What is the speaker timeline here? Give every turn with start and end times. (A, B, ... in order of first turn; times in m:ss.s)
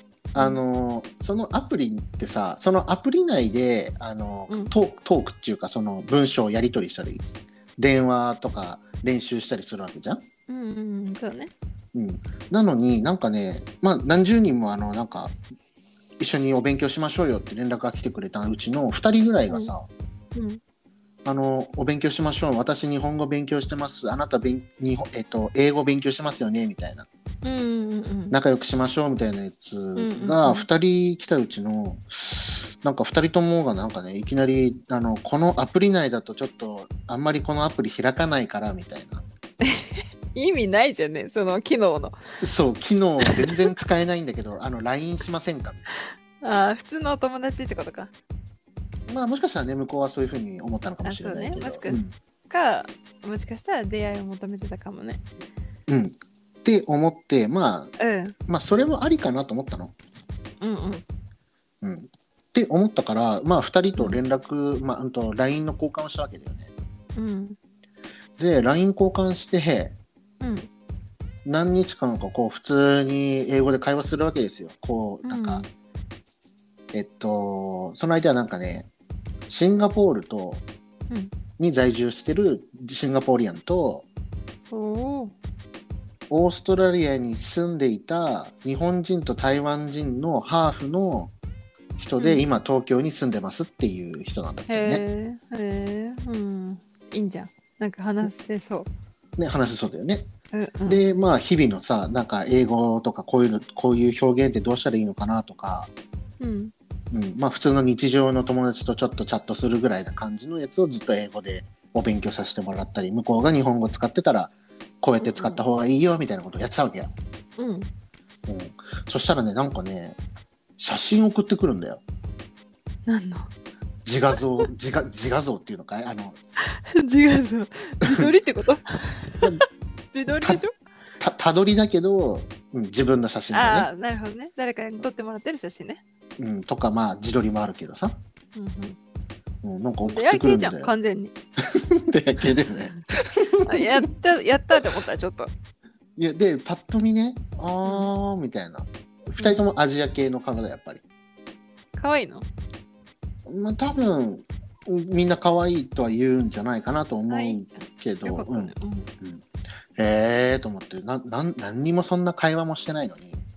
0:00.3-0:10.2 A
0:00.3-0:00.6 B
0:10.5-0:11.5 B
0:11.9-0:15.4 A
0:16.2-0:19.9 A
0:20.3-0:20.6 B
0:21.2-0:27.1 A
0:27.4-0:28.4 B
0:28.3-0:39.2 A
0:30.0-0:30.6 B
0:39.6-0:42.2 B
0:42.4-0:45.8 A
0:43.2-0:43.7 B
0:46.4-0:48.1 B
0:49.1-0:52.1 A
0:51.0-0:55.2 B
0:55.9-0:57.9 A
0:58.0-0:58.3 B
0:58.5-0:59.9 A
1:00.6-1:01.0 B
1:01.8-1:06.7 A
1:04.0-1:04.2 B
1:07.2-1:07.6 B
1:08.4-1:10.0 A
1:10.4-1:10.7 B
1:11.4-1:15.6 A
1:15.2-1:15.7 B
1:16.9-1:18.9 A
1:19.5-1:20.6 A
1:21.6-1:24.0 A
1:24.7-1:25.3 B
1:26.3-1:31.3 A
1:32.0-1:35.0 A
1:32.2-1:32.4 B
1:34.7-1:38.9 B
1:39.4-1:40.3 A
1:40.5-1:41.0 B
1:40.9-1:45.9 A
1:46.4-1:46.7 B
1:47.1-1:57.1 A
1:55.2-1:55.6 B
1:57.6-1:57.9 B
1:58.5-2:00.2 A
2:00.8-2:02.0 A
2:03.1-2:03.5 B
2:04.0-2:06.4 A
2:06.7-2:10.7 B
2:08.0-2:08.3 A
2:11.2-2:13.9 A
2:13.5-2:16.0 B
2:16.4-2:18.2 A
2:18.6-2:19.0 B
2:19.6-2:20.9 A
2:20.1-2:21.3 B
2:21.6-2:23.9 A
2:23.6-2:25.5 B
2:26.2-2:31.0 A
2:27.8-2:28.1 B
2:32.0-2:32.4 B
2:33.4-2:39.4 A
2:37.3-2:39.1 B
2:40.0-2:43.4 A